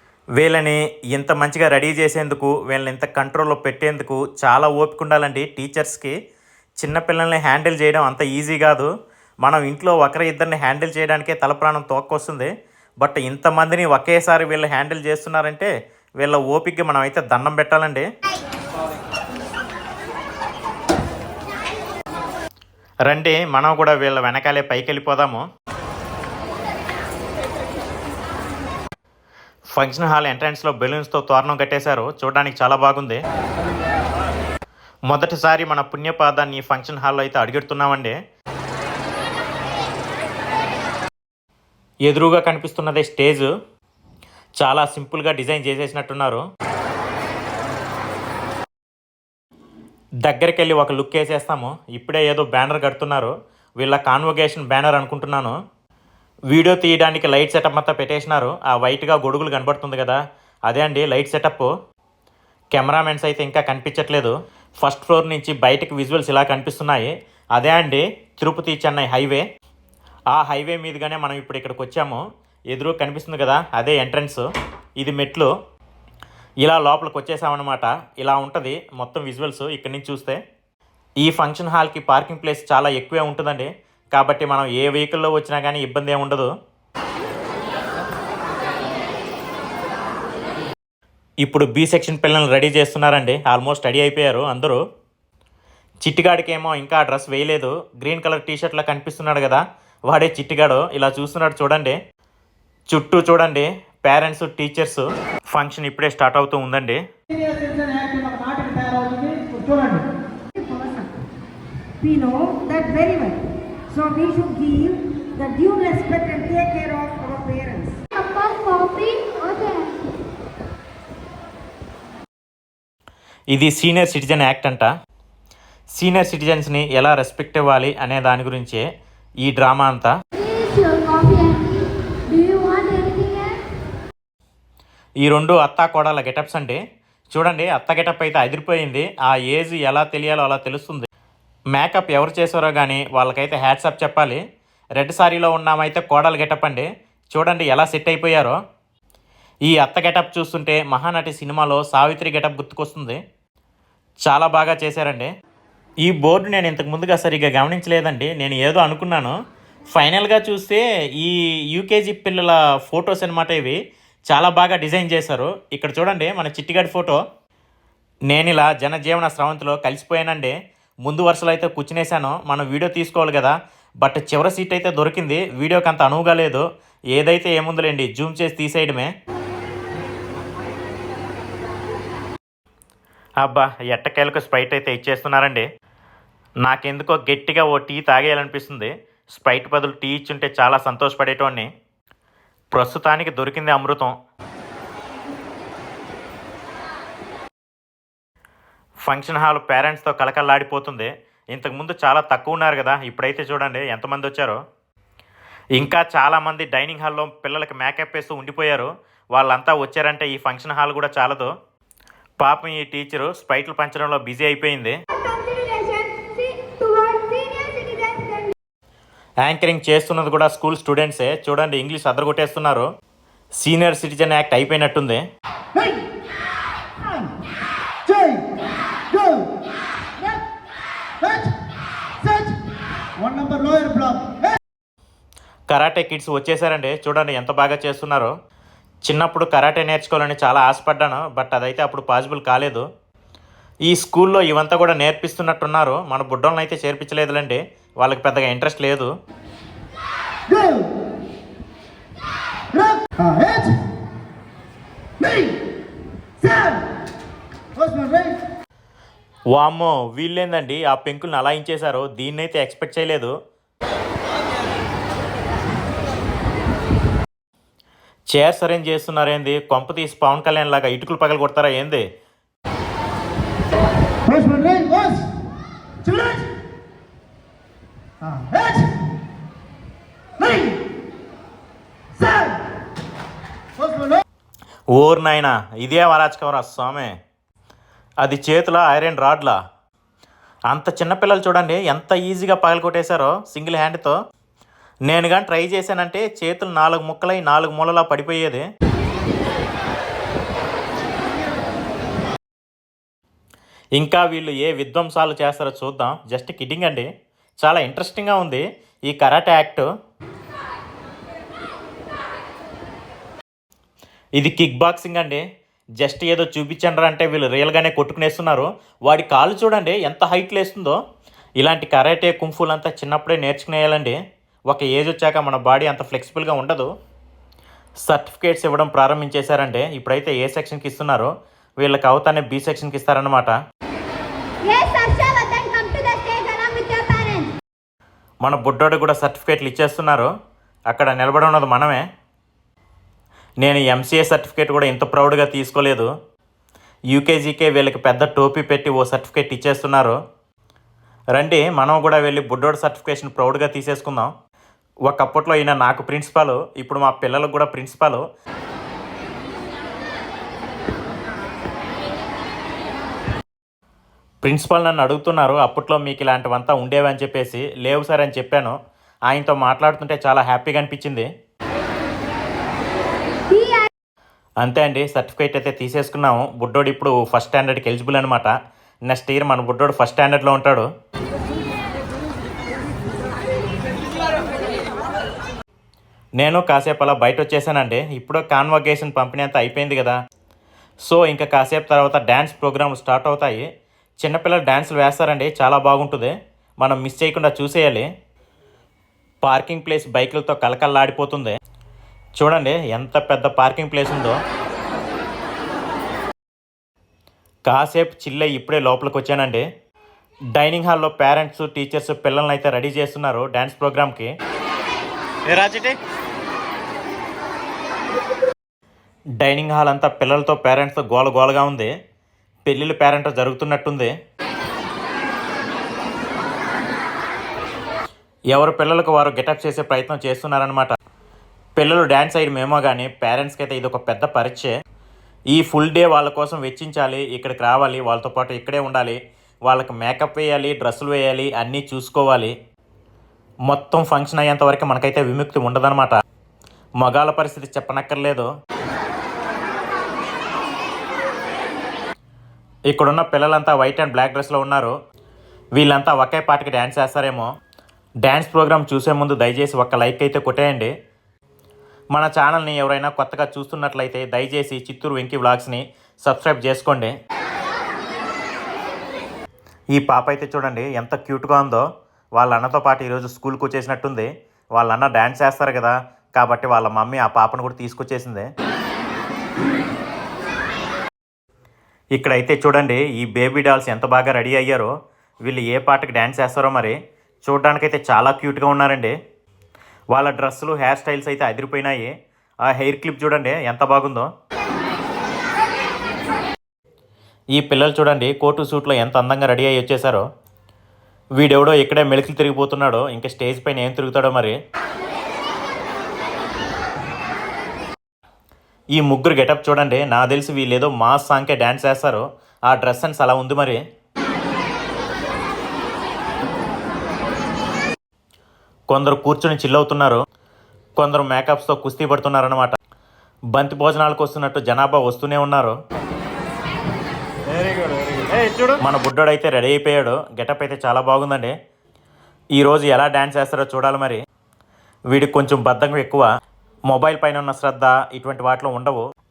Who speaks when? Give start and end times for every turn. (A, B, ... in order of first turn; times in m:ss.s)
0:00.4-0:06.2 A
0:06.8-0:08.9 A
0:09.4-0:12.5 A
0:13.0-0:18.1 A
0:23.1-0:25.4 A
0:29.8-0:33.2 A
0:35.1-0:38.2 A
0:42.1-0:43.5 A
0:44.6-0:46.4 A
0:50.2-0:55.6 A
0:56.5-1:01.7 A
1:02.7-1:09.4 A
1:10.3-1:14.4 A
1:15.0-1:15.5 A
1:16.6-1:20.4 A
1:21.2-1:26.5 A
1:31.4-1:34.8 A
1:36.0-1:42.0 A
1:42.9-1:47.0 A
1:47.7-1:49.8 B
1:49.4-1:50.0 C
1:50.6-1:51.1 C
1:52.0-1:58.0 C
1:58.2-2:00.0 D
2:03.5-2:04.9 A
2:06.0-2:08.8 A
2:09.4-2:10.1 A
2:10.4-2:13.7 D
2:15.2-2:16.8 A
2:17.3-2:21.0 A
2:21.8-2:24.4 A
2:25.0-2:28.6 A
2:29.7-2:33.2 A
2:34.2-2:35.3 A
2:36.0-2:39.4 A
2:39.9-2:43.8 A
2:44.3-2:47.2 A
2:48.3-2:59.1 A
3:03.4-3:05.7 A
3:06.6-3:11.7 A
3:12.7-3:14.1 A
3:19.1-3:24.6 A
3:25.8-3:31.5 A
3:32.4-3:35.0 A
3:35.1-3:38.5 D
3:39.4-3:42.9 A
3:43.6-3:45.2 A
3:45.8-3:46.0 C
3:48.1-3:48.5 C
3:49.1-3:49.5 C
3:51.2-3:51.6 C
3:52.2-3:52.6 C
3:53.2-3:54.4 C
3:55.7-3:58.3 A
3:59.0-4:02.9 A
4:03.9-4:09.1 A
4:10.5-4:10.9 C
4:12.8-4:13.8 C
4:15.2-4:15.6 C
4:16.4-4:16.8 C
4:17.8-4:18.4 C
4:19.5-4:23.3 A
4:28.3-4:32.0 A
4:34.3-4:35.3 C
4:36.0-4:36.5 C
4:38.3-4:38.9 C
4:40.4-4:40.8 C
4:42.2-4:42.6 C
4:43.8-4:44.2 C
4:45.0-4:47.1 A
4:48.2-4:49.6 A
4:50.7-4:54.2 A
4:55.1-4:58.6 A
5:04.0-5:07.1 A
5:07.6-5:09.9 A
5:14.4-5:15.4 A
5:16.0-5:21.0 A
5:21.6-5:24.2 A
5:24.7-5:26.9 A
5:28.1-5:33.5 A
5:34.6-5:37.6 D
5:38.4-5:40.3 A
5:40.9-5:42.0 A
5:43.6-5:46.1 A
5:47.1-5:50.2 A
5:51.4-5:54.3 A
5:55.1-5:58.2 A
6:04.4-6:08.7 A
6:09.3-6:11.3 A
6:13.5-6:13.9 D
6:14.6-6:18.5 A
6:19.1-6:20.9 A
6:26.4-6:30.2 A
6:31.1-6:33.7 A
6:34.2-6:38.1 A
6:39.4-6:41.6 A
6:42.4-6:44.4 A
6:47.7-6:49.7 A
6:50.6-6:54.3 A
6:55.5-6:56.0 A
6:59.4-7:01.9 A
7:02.6-7:04.1 A
7:08.5-7:10.9 A
7:11.8-7:14.7 A
7:15.5-7:22.6 A
7:23.7-7:26.2 A
7:27.0-7:28.5 A
7:32.9-7:35.0 A
7:35.8-7:37.5 A
7:38.2-7:40.9 A
7:42.1-7:47.1 A
7:50.0-7:51.8 A
7:52.4-7:58.5 A
8:02.2-8:04.9 A
8:05.4-8:09.1 A
8:10.1-8:12.1 A
8:12.7-8:14.3 A
8:17.6-8:20.2 A
8:21.4-8:24.6 A
8:29.0-8:33.8 A
8:38.9-8:40.2 A
8:41.0-8:42.7 A
8:43.5-8:45.8 A
8:47.5-8:51.5 A
8:52.6-8:54.2 A
8:55.1-8:56.3 A
8:56.9-8:59.0 A